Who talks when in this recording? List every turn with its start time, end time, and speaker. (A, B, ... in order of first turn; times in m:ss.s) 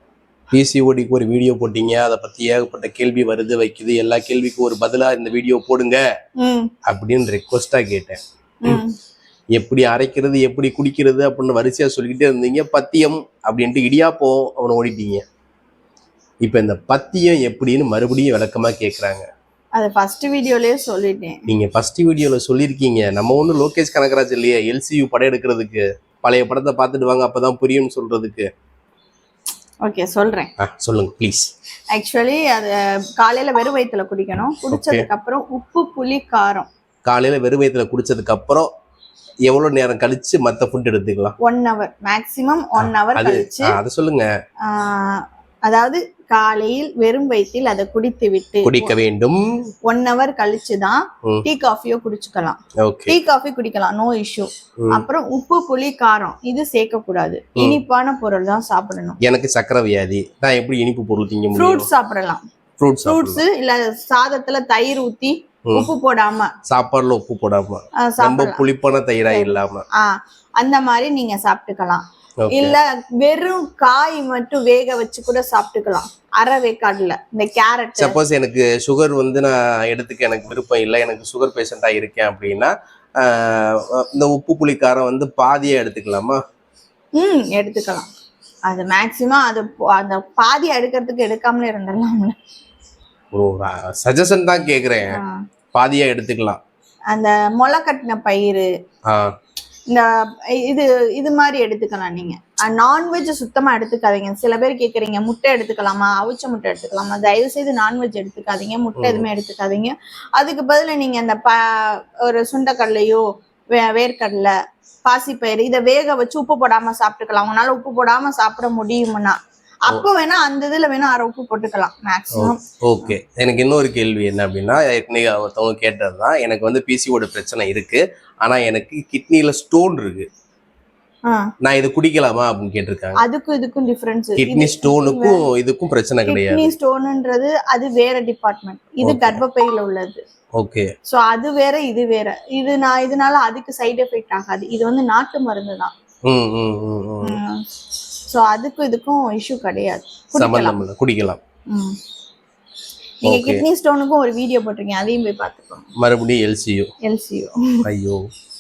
0:00.5-0:06.0 A
0:06.4-0:06.7 B
0:06.9-0:08.8 A
0:08.6-0:09.0 B
0:09.6-0:15.2 A
0:16.4-0:19.3 A
0:19.8-0:21.4 B
0:21.5-0:28.5 A
0:29.8-0:30.5 B
0:30.6-0:31.5 A
0:31.9-0:36.7 B
0:34.7-0:35.1 A
0:37.1-0:38.7 A
0:39.5-0:41.4 A
0:41.4-0:43.8 B
0:42.8-0:44.3 A
0:44.7-0:49.0 B
0:48.6-0:49.6 A
0:49.9-0:59.2 B
0:52.8-0:53.2 A
0:59.2-1:01.9 A
1:01.6-1:02.4 B
1:02.8-1:03.4 A
1:03.1-1:06.5 B
1:06.7-1:09.8 A
1:08.0-1:08.6 B
1:09.3-1:18.2 B
1:12.4-1:12.8 A
1:18.0-1:26.4 A
1:27.2-1:28.1 B
1:28.7-1:32.4 B
1:33.3-1:35.2 A
1:35.7-1:36.6 A
1:37.1-1:38.7 B
1:39.9-1:54.5 B
1:49.0-1:49.3 A
1:55.1-2:03.1 B
2:02.4-2:10.3 A
2:11.6-2:13.2 A
2:13.2-2:15.4 B
2:14.4-2:16.7 A
2:16.3-2:20.2 B
2:19.0-2:19.4 A
2:20.6-2:20.9 A
2:21.1-2:25.9 B
2:26.3-2:27.4 A
2:27.2-2:27.6 B
2:28.3-2:30.8 B
2:30.4-2:31.4 A
2:31.7-2:32.0 B
2:33.2-2:35.9 B
2:33.2-2:33.6 A
2:36.0-2:36.9 A
2:37.0-2:37.8 B
2:37.8-2:38.2 A